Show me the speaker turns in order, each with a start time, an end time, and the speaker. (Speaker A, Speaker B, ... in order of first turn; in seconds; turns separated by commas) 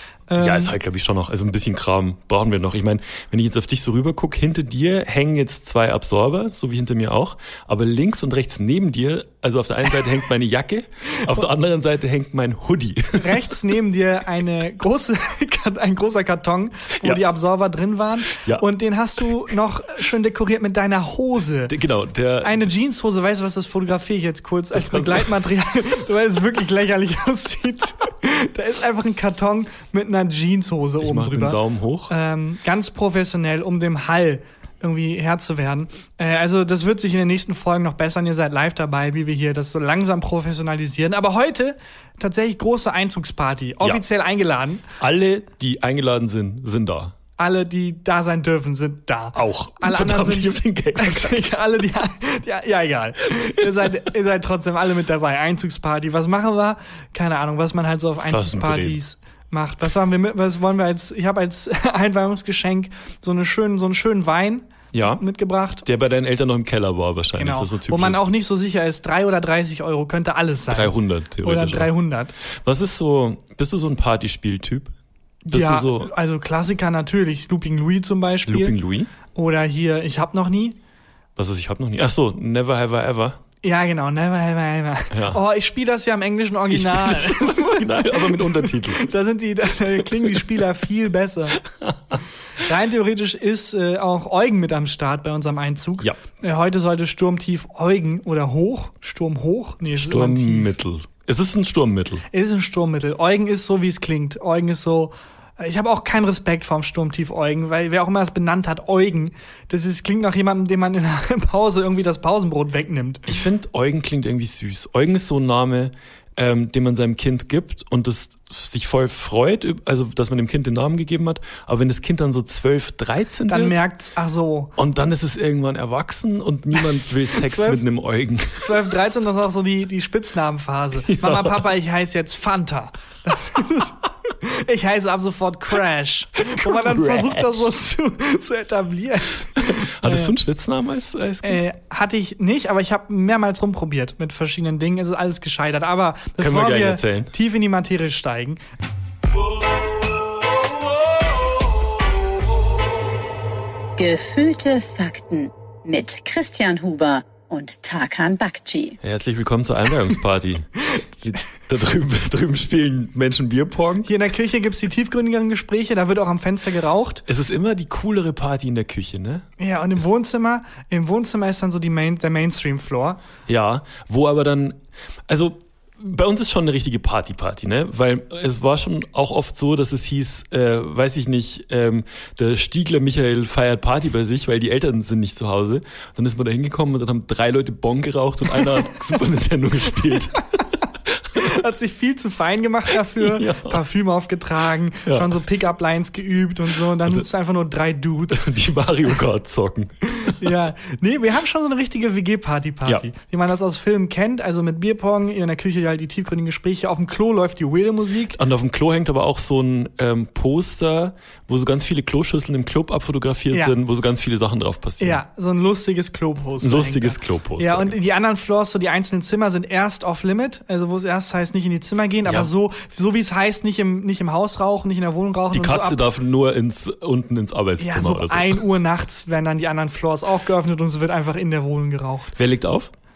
Speaker A: 0.3-0.7, Speaker B: 0.4-13.6, Speaker A: 13.1-21.8, Speaker B: 18.3-18.6, Speaker B: 21.7-22.7, Speaker A: 22.4-44.9, Speaker B: 24.7-25.3, Speaker B: 31.0-32.1, Speaker B: 45.0-47.1, Speaker A: 47.4-65.9, Speaker B: 49.4-51.6, Speaker B: 58.2-59.0, Speaker B: 64.9-65.2, Speaker B: 65.8-68.3, Speaker A: 67.3-72.3, Speaker B: 70.7-71.9, Speaker B: 72.6-74.9, Speaker A: 75.5-78.8, Speaker B: 75.5-76.1, Speaker B: 78.5-79.1, Speaker A: 79.3-80.8, Speaker B: 81.4-83.4, Speaker A: 83.6-91.6, Speaker B: 85.1-85.4, Speaker B: 86.7-89.1, Speaker B: 90.0-90.4, Speaker B: 91.6-92.2, Speaker A: 92.6-100.7, Speaker B: 100.0-102.2, Speaker A: 102.3-113.3, Speaker B: 113.3-123.8, Speaker A: 123.5-124.7, Speaker B: 124.8-128.9, Speaker A: 127.4-127.8, Speaker A: 128.6-140.3, Speaker B: 131.1-131.7, Speaker B: 136.4-137.5, Speaker B: 139.6-141.6, Speaker A: 141.4-148.6, Speaker B: 146.4-147.3, Speaker C: 154.0-159.0, Speaker B: 159.0-164.1, Speaker A: 164.1-167.2, Speaker B: 167.3-169.5, Speaker A: 169.6-173.2, Speaker B: 173.5-174.8, Speaker B: 175.3-190.5, Speaker B: 191.1-191.5, Speaker A: 191.3-198.5, Speaker B: 193.2-193.8, Speaker B: 195.1-195.4, Speaker B: 198.3-200.5, Speaker A: 200.2-208.4, Speaker B: 208.4-215.2, Speaker A: 215.0-226.0, Speaker B: 216.6-218.0, Speaker B: 225.5-228.6, Speaker A: 227.8-232.3, Speaker B: 232.4-232.9